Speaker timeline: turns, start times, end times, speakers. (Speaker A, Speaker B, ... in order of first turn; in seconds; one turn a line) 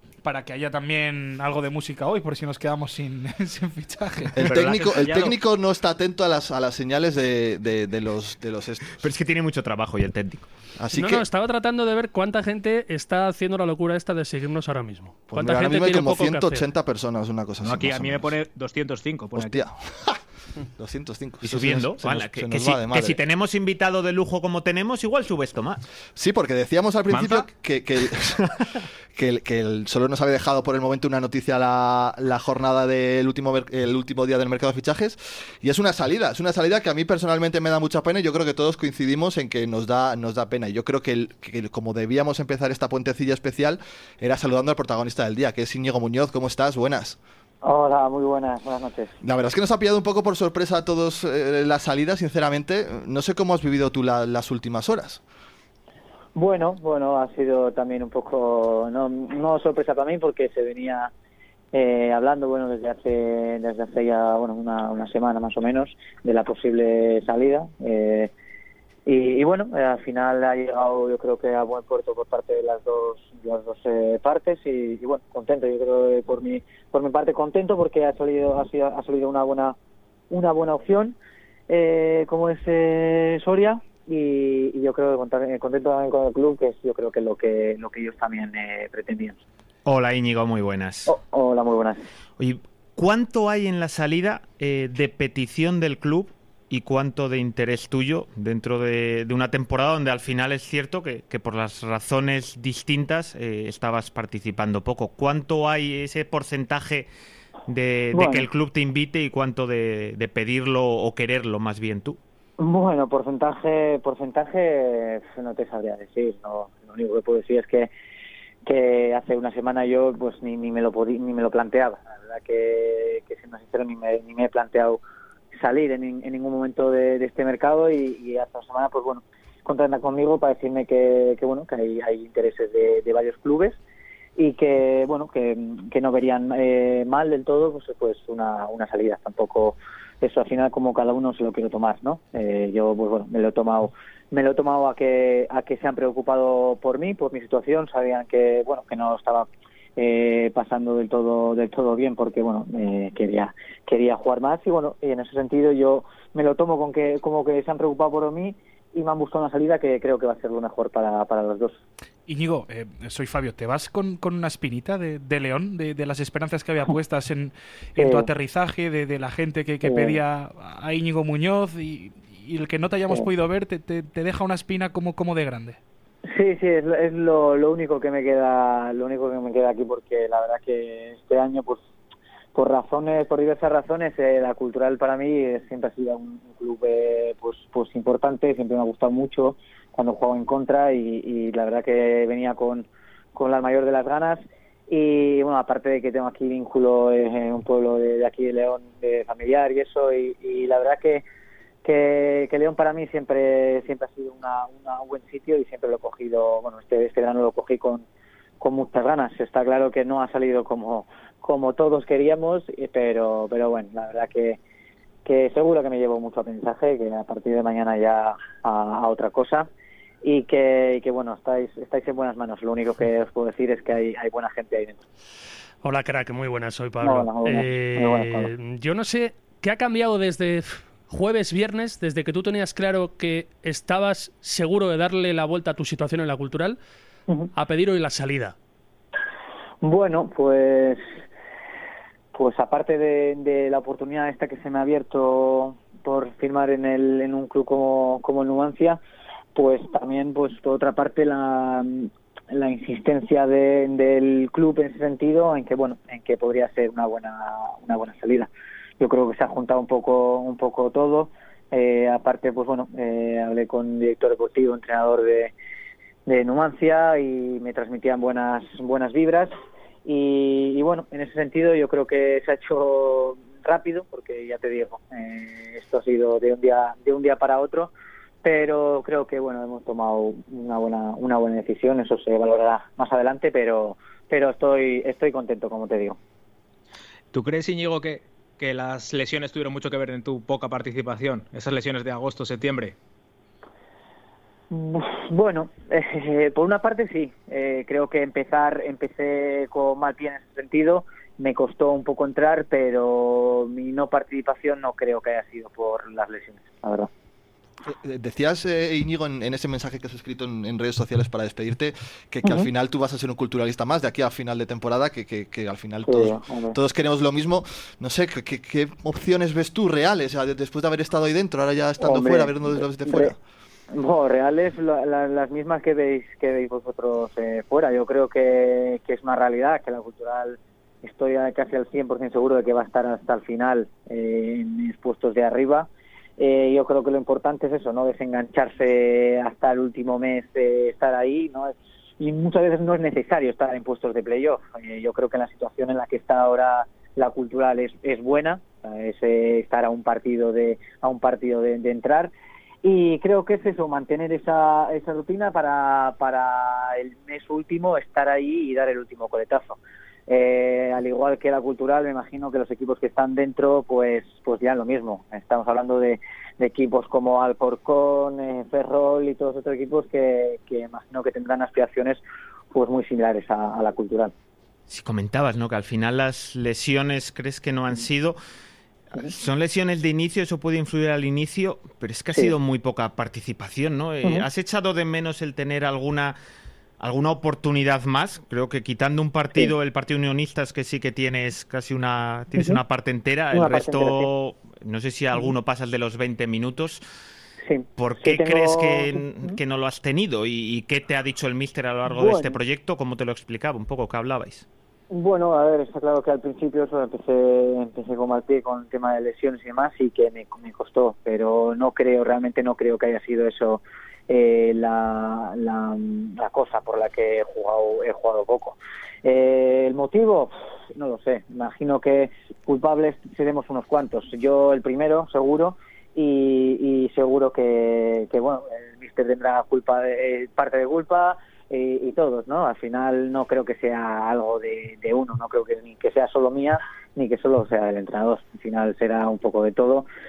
Speaker A: 0.2-4.4
Speaker B: 4.4-5.4
Speaker C: 4.4-9.0
Speaker D: 9.0-10.5
Speaker C: 10.8-11.2
Speaker E: 10.9-16.6
Speaker C: 15.3-18.3
Speaker B: 17.6-19.6
Speaker C: 19.3-20.2
Speaker C: 20.8-23.2
Speaker D: 21.4-25.8
Speaker C: 26.1-28.5
Speaker B: 27.1-27.5
Speaker C: 29.1-47.2
Speaker F: 47.6-49.1
Speaker C: 49.2-55.2
Speaker F: 56.3-61.1
Speaker F: 61.7-68.3
Speaker F: 69.0-79.8
Speaker F: 80.3-81.2
Speaker F: 81.7-89.4
Speaker D: 89.8-91.1
Speaker F: 91.1-92.0
Speaker D: 92.4-107.1
Speaker D: 107.7-112.2
Speaker F: 108.1-108.5
Speaker F: 112.6-117.9
Speaker F: 118.6-125.0
Speaker F: 125.5-133.8
Speaker F: 134.3-161.8
Speaker A: 162.3-175.8
Speaker F: 168.0-168.3
Speaker F: 169.8-170.2
Speaker F: 176.3-181.8
Speaker F: 182.5-201.2
Speaker F: 201.8-208.0
Speaker F: 208.6-214.6
Speaker F: 215.2-219.7
Speaker F: 220.2-225.0
Speaker E: 225.8-236.8
Speaker F: 227.0-228.5
Speaker E: 237.5-238.5
Speaker F: 239.8-241.0
Speaker F: 242.3-249.0
Speaker F: 249.5-265.5
Speaker F: 266.2-269.5
Speaker F: 270.0-277.9
Speaker F: 278.4-286.2
Speaker B: 287.3-293.0
Speaker F: 294.7-307.1
Speaker C: 307.9-323.4
Speaker F: 312.4-312.7
Speaker F: 316.0-316.8
Speaker F: 322.0-323.3
Speaker F: 323.9-352.3
Speaker F: 352.8-372.2
Speaker F: 372.7-374.3
Speaker D: 374.9-378.4
Speaker D: 379.2-386.3
Speaker D: 387.0-397.0
Speaker F: 393.5-394.3
Speaker F: 397.6-399.6
Speaker D: 398.0-404.6
Speaker F: 402.1-402.6
Speaker F: 405.1-440.1